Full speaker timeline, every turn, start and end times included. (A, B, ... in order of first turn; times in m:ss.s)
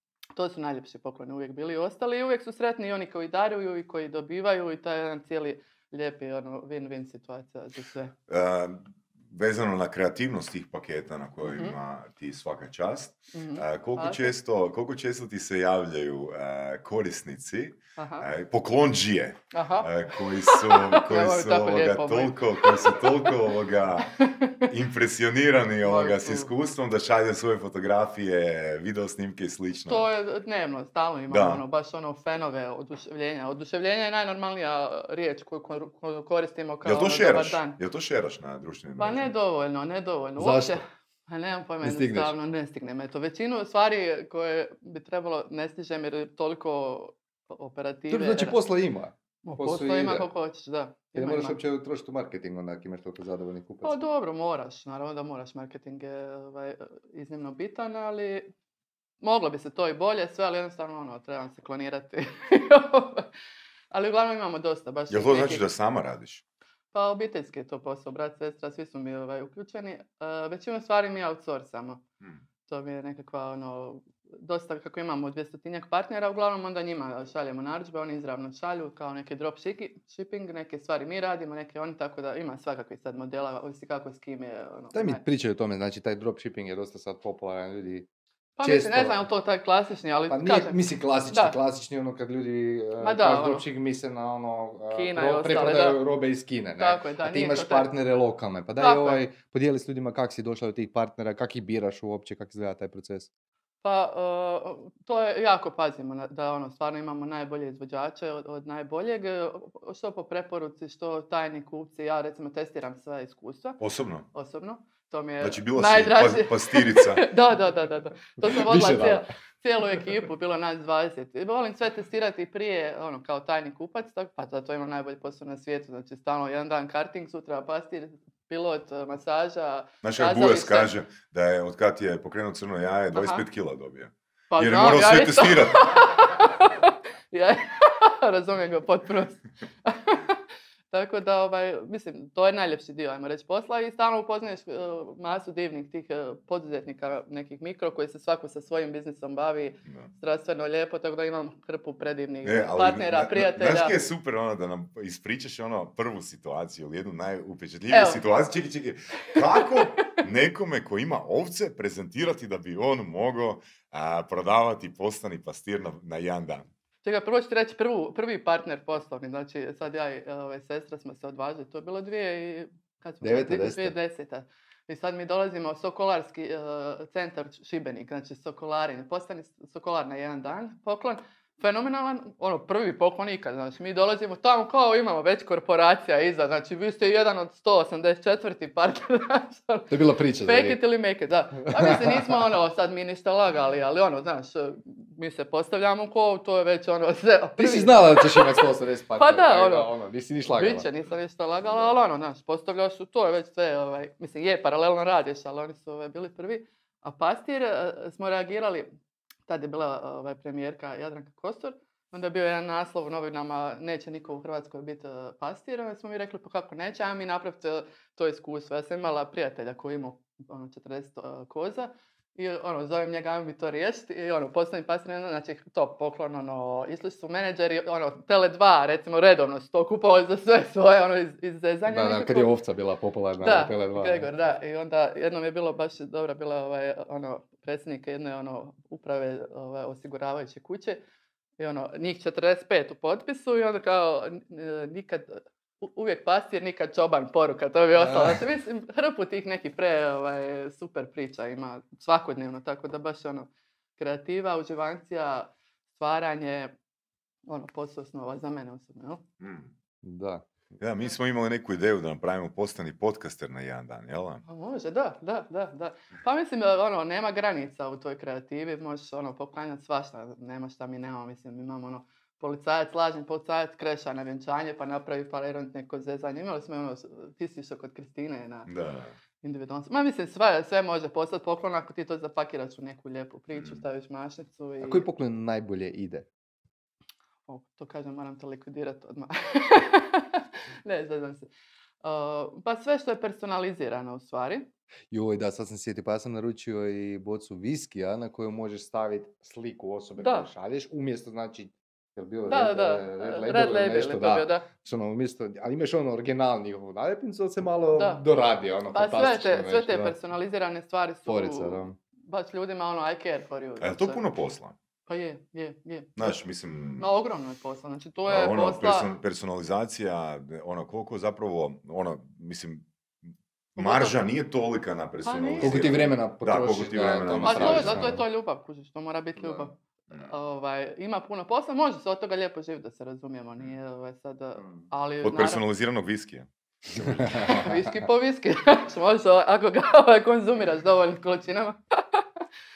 0:00.4-0:08.1 A
0:08.3-0:24.1 B
0:11.4-0:11.8 A
0:13.3-0:14.3 A
0:18.0-0:18.3 A
0:19.5-0:23.4 A
0:24.2-0:24.7 A
0:24.7-0:30.1 B
0:25.8-0:26.5 A
0:29.8-0:37.8 A
0:31.3-0:31.6 B
0:36.8-0:39.3 B
0:39.0-0:48.6 A
0:40.4-0:40.8 C
0:41.8-0:42.3 C
0:48.1-0:50.3 C
0:49.4-0:51.6 A
0:51.2-0:54.0 C
0:53.8-0:58.5 A
0:59.2-1:03.3 A
1:03.9-1:05.7 A
1:05.1-1:06.4 B
1:06.9-1:12.0 A
1:12.7-1:25.2 A
1:24.9-1:28.1 C
1:28.6-1:31.6 A
1:28.6-1:29.2 C
1:30.3-1:43.3 C
1:33.0-1:33.7 A
1:34.9-1:36.0 A
1:36.8-1:37.9 A
1:38.8-1:39.2 A
1:43.8-1:53.8 A
1:53.8-1:54.3 B
1:54.3-2:10.9 A
1:55.4-1:57.3 B
1:58.4-1:59.2 C
2:10.0-2:15.8 B
2:13.2-2:13.4 A
2:14.5-2:20.4 A
2:20.9-2:34.0 A
2:32.4-2:46.7 B
2:37.9-2:38.2 A
2:39.6-2:40.2 A
2:47.0-3:18.6 A
2:53.2-2:54.0 C
3:09.9-3:10.8 C
3:11.7-3:12.5 C
3:17.6-3:20.9 C
3:19.2-3:19.9 A
3:20.5-3:28.9 A
3:29.5-3:52.6 A
3:51.9-3:54.3 C
3:53.4-4:01.0 A
4:01.6-4:16.7 A
4:08.0-4:08.4 C
4:17.5-4:19.2 A
4:19.4-4:19.7 B
4:20.0-4:20.5 C
4:20.8-4:24.4 B
4:24.5-4:38.7 A
4:38.7-4:39.1 B
4:39.4-4:45.1 A
4:43.6-4:43.8 B
4:44.8-4:46.3 C
4:47.5-4:51.5 A
4:52.0-4:54.7 A
4:55.1-5:10.2 C
5:00.2-5:00.5 A
5:02.5-5:04.7 A
5:08.0-5:08.2 A
5:08.9-5:14.2 A
5:11.3-5:12.0 C
5:13.8-5:14.8 B
5:15.1-5:16.3 A
5:16.2-5:17.1 B
5:17.0-5:19.1 A
5:18.3-5:22.9 B
5:23.8-5:28.2 B
5:23.8-5:24.2 A
5:25.2-5:26.0 A
5:25.6-5:28.2 C
5:27.4-5:35.6 A
5:35.2-5:37.6 B
5:37.3-5:42.2 A